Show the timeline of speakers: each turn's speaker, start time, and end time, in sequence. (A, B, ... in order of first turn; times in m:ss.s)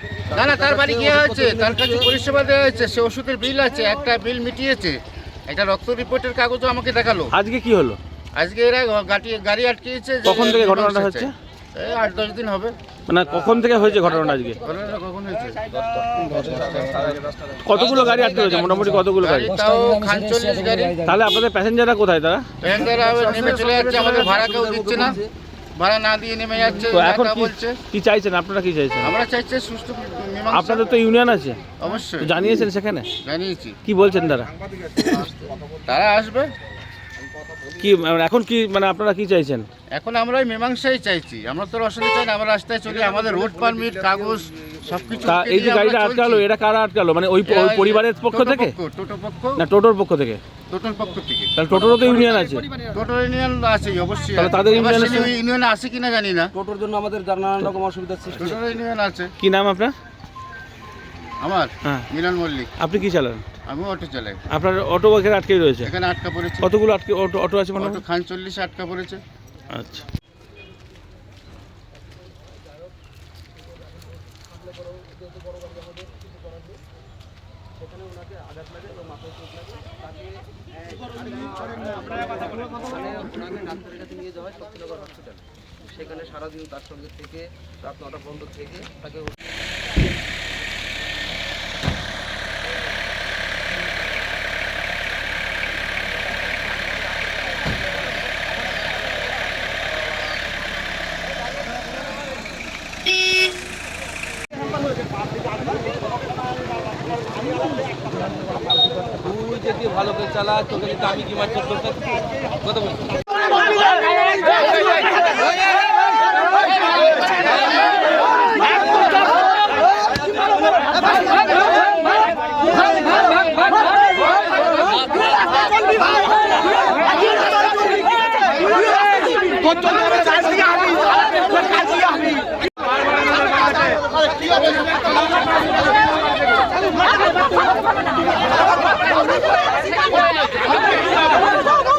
0:00.3-0:07.3 A
0:00.4-0:02.0 B
0:07.3-0:08.0 C
0:08.4-0:12.8 A
0:10.2-0:11.3 C
0:13.1-0:14.6 C
0:14.6-0:15.6 A
0:16.2-0:17.1 B
0:17.6-0:19.5 C
0:19.2-0:21.0 A
0:19.6-0:20.4 B
0:21.0-0:22.5 C
0:22.6-0:25.2 A
0:23.0-0:25.3 B
0:25.8-0:27.8 A
0:26.8-0:29.1 C
0:29.0-0:30.8 A
0:30.5-0:33.1 C
0:31.8-0:32.6 A
0:33.2-0:33.8 A
0:33.8-0:34.5 C
0:35.0-0:35.3 B
0:35.9-0:36.5 A
0:37.8-0:39.7 C
0:39.9-0:46.4 A
0:45.2-0:48.7 C
0:47.5-0:49.6 A
0:49.6-0:50.4 C
0:50.7-0:51.7 A
0:51.5-0:52.7 C
0:52.8-0:56.5 A
0:54.4-0:55.3 C
0:56.5-0:58.6 B
0:58.4-0:59.3 A
0:59.4-0:59.9 C
1:01.4-1:02.7 A
1:02.8-1:03.4 C
1:03.7-1:04.4 A
1:04.5-1:05.9 C
1:05.8-1:06.7 A
1:06.6-1:08.0 C
1:07.8-1:09.2 A
1:09.7-1:10.0 C
1:18.2-1:20.1 B
1:21.3-1:25.4 B
1:25.9-1:29.4 B
1:49.2-1:52.2 B